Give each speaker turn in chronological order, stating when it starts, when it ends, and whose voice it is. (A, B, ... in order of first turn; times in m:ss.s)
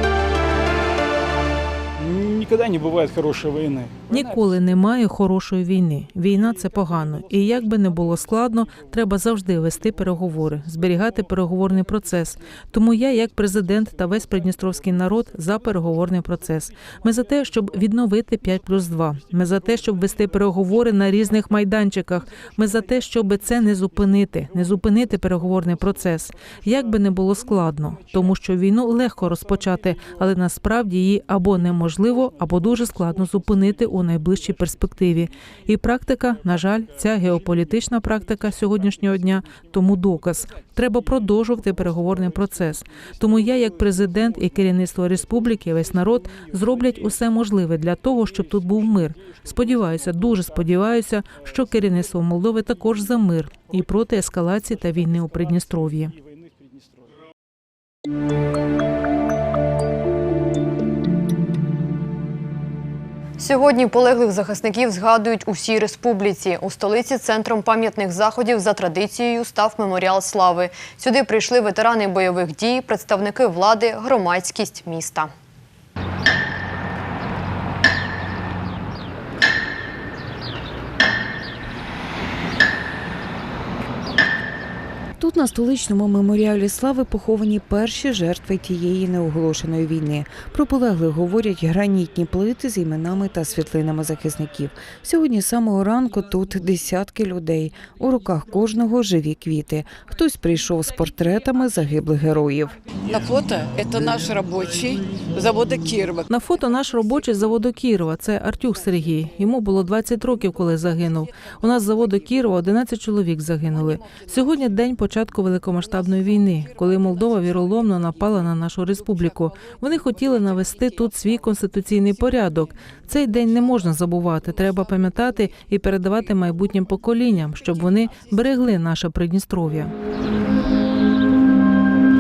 0:02.0-0:04.2 A
0:04.1-0:56.1 B
1:03.4-1:15.3 C
1:25.2-1:42.7 D
1:43.1-1:46.2 E
1:46.3-2:09.9 B